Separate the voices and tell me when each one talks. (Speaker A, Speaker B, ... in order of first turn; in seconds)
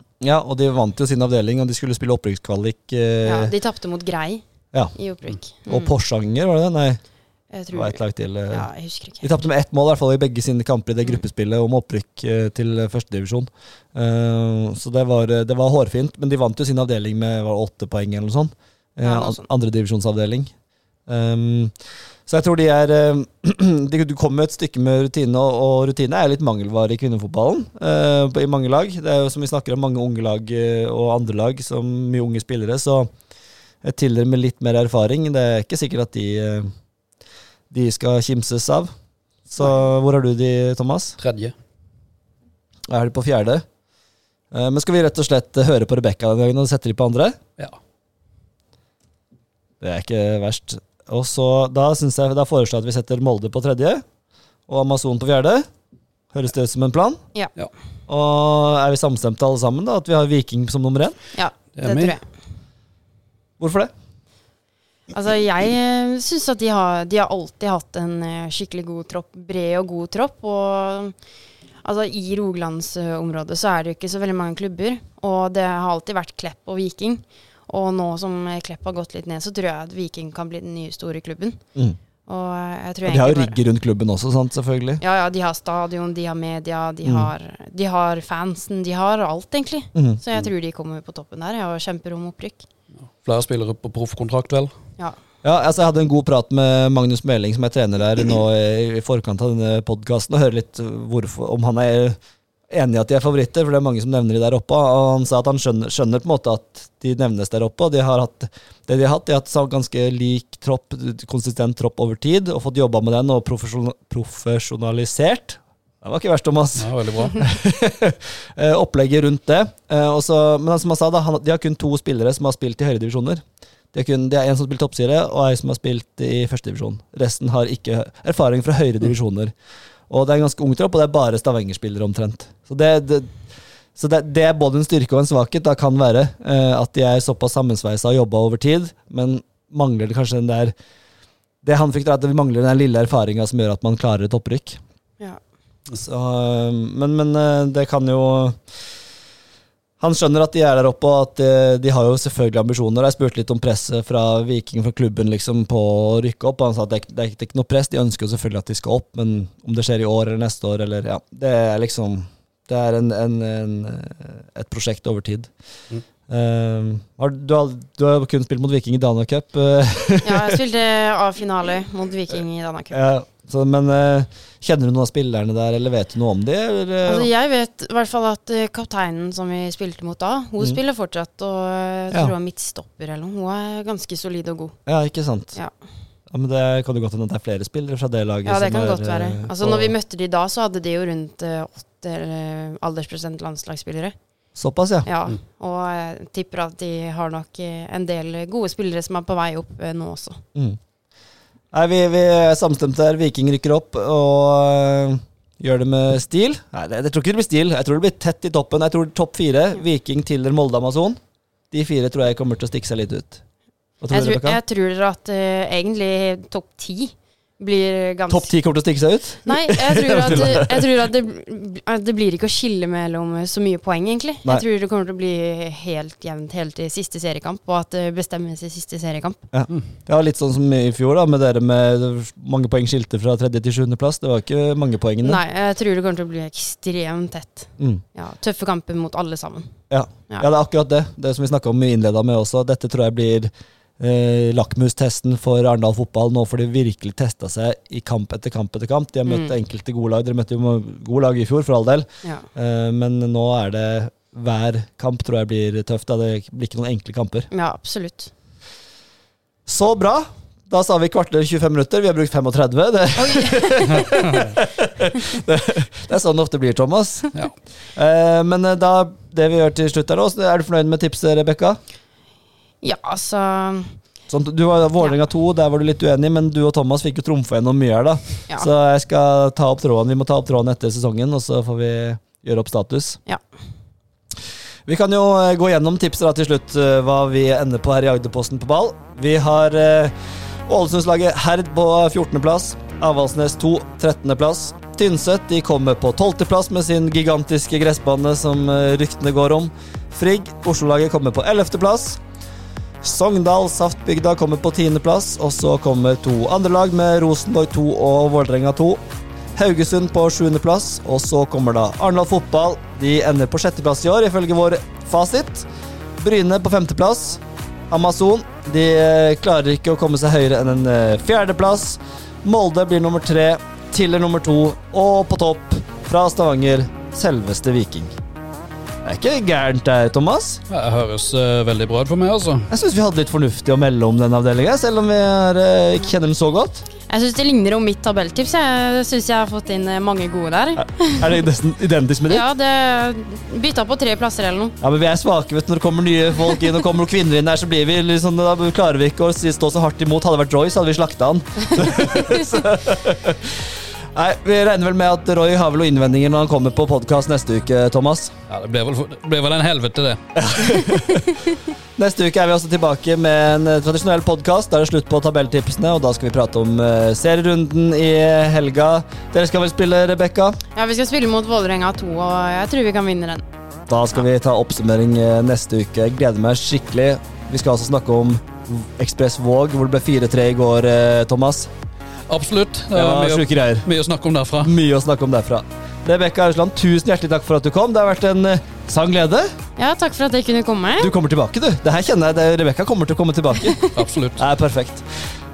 Speaker A: 0.2-3.5, 5.5-7.0, 7.7-8.7, 9.2-20.5, 21.1-21.8, 22.3-33.1, 33.8-36.7, 37.7-38.9, 39.5-41.2, 42.9-43.6, 44.5-47.4, 49.8-54.0, 54.7-55.7, 56.3-57.2, 58.1-61.2, 63.6-63.9, 83.0-85.0, 87.0-87.3, 90.0-90.2, 95.4-102.2, 102.7-129.5, 130.1-133.4, 134.0-140.7, 141.6-144.8, 145.9-148.6, 150.0-165.5, 166.3-170.6, 172.9-177.3, 184.9-185.6, 186.3-189.9, 194.6-195.1, 200.6-200.8, 201.7-211.2, 211.7-213.4, 214.0-214.6, 218.3-220.9, 229.5-235.4, 239.9-257.5, 259.7-267.3, 267.9-271.8, 274.3-283.2, 284.9-290.1, 290.7-302.2, 303.0-309.0, 309.6-315.7, 316.2-328.1, 329.1-330.6, 332.7-336.9, 340.8-342.5, 344.8-358.3, 360.4-361.3, 362.0-370.6, 373.9-381.7, 382.9-383.9, 384.6-389.5, 391.0-393.8, 394.4-395.1
Speaker B: 3.2-5.9, 7.5-9.3, 19.0-19.4, 61.4-62.2, 65.1-71.2, 71.8-81.6, 82.3-83.6, 85.0-92.7, 170.2-172.9, 177.1-184.8, 188.4-194.2, 195.0-200.4, 214.1-218.5, 219.5-229.4, 235.2-239.7, 249.3-249.5, 257.5-258.3, 263.2-264.2, 272.8-274.0, 337.1-341.4, 342.3-344.8, 360.7-361.5, 370.8-373.4, 389.8-391.1
Speaker C: 41.2-41.5, 61.8-62.1, 93.2-94.8, 116.8-117.4, 330.7-332.7, 358.5-360.2, 382.3-384.7, 393.9-394.4